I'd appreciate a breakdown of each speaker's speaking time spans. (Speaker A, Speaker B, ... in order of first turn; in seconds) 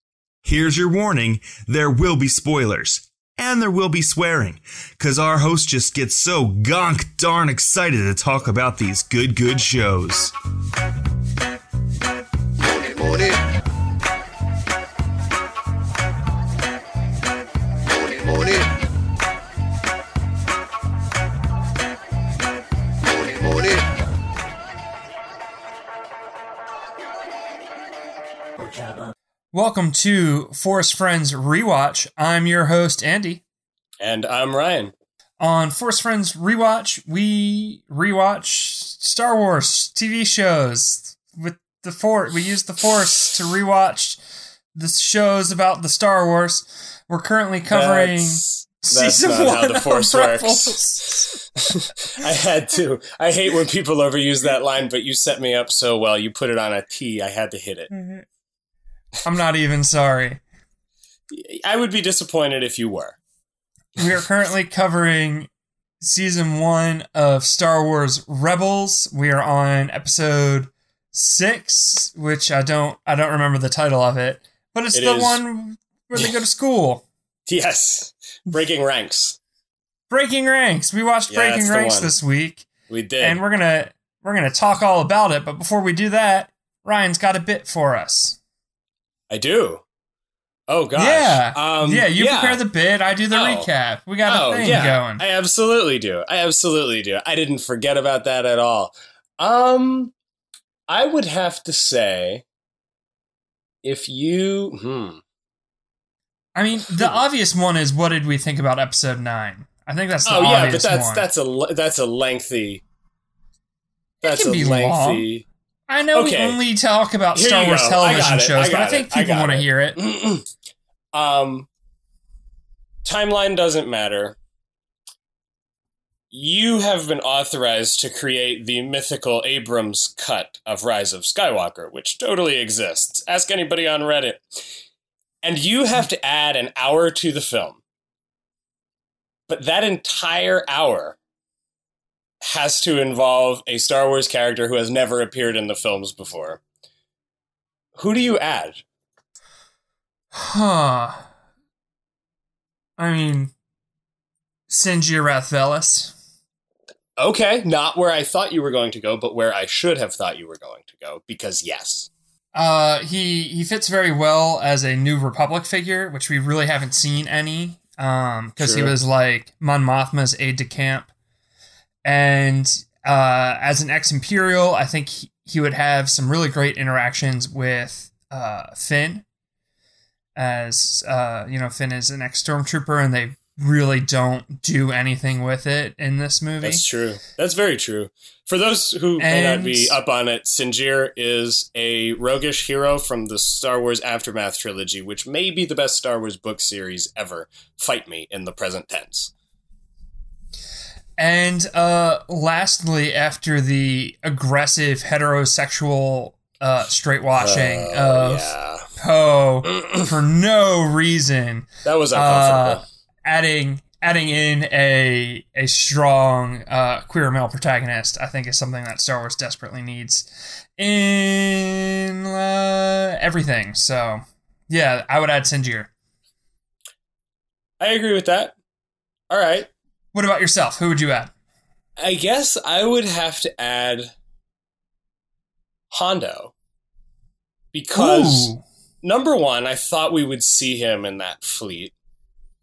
Speaker A: 0.4-10.3
Speaker B: 29.5-33.4, 35.4-44.2, 44.7-51.4, 57.9-58.2, 59.2-60.4, 64.0-65.5, 66.0-77.0, 80.1-82.7, 83.2-88.4, 90.9-95.2, 106.5-111.2, 114.2-115.2, 115.9-120.0, 150.3-151.3, 153.0-153.5, 154.7-156.1, 162.5-171.1, 172.0-179.2, 180.3-186.8, 189.2-189.9, 201.2-225.9, 230.1-231.3, 237.9-238.6
Speaker C: 34.0-34.9, 47.7-50.8, 51.4-57.9, 61.3-63.2, 74.9-75.4, 77.5-79.4, 81.3-82.1, 82.9-83.4, 89.3-89.8, 90.7-92.6, 93.3-93.7, 94.2-100.1, 100.9-102.4, 103.8-105.2, 110.2-112.8, 114.2-115.4, 116.1-116.6, 117.3-120.5, 121.1-121.7, 123.0-124.4, 126.3-134.4, 135.4-137.8, 139.5-141.2, 142.4-146.6, 147.9-148.8, 157.2-162.1, 168.6-168.9, 186.6-199.3, 207.4-208.9, 211.8-212.8, 227.8-228.6, 229.3-229.7, 232.0-234.1, 235.9-236.5, 237.7-238.5, 239.0-241.9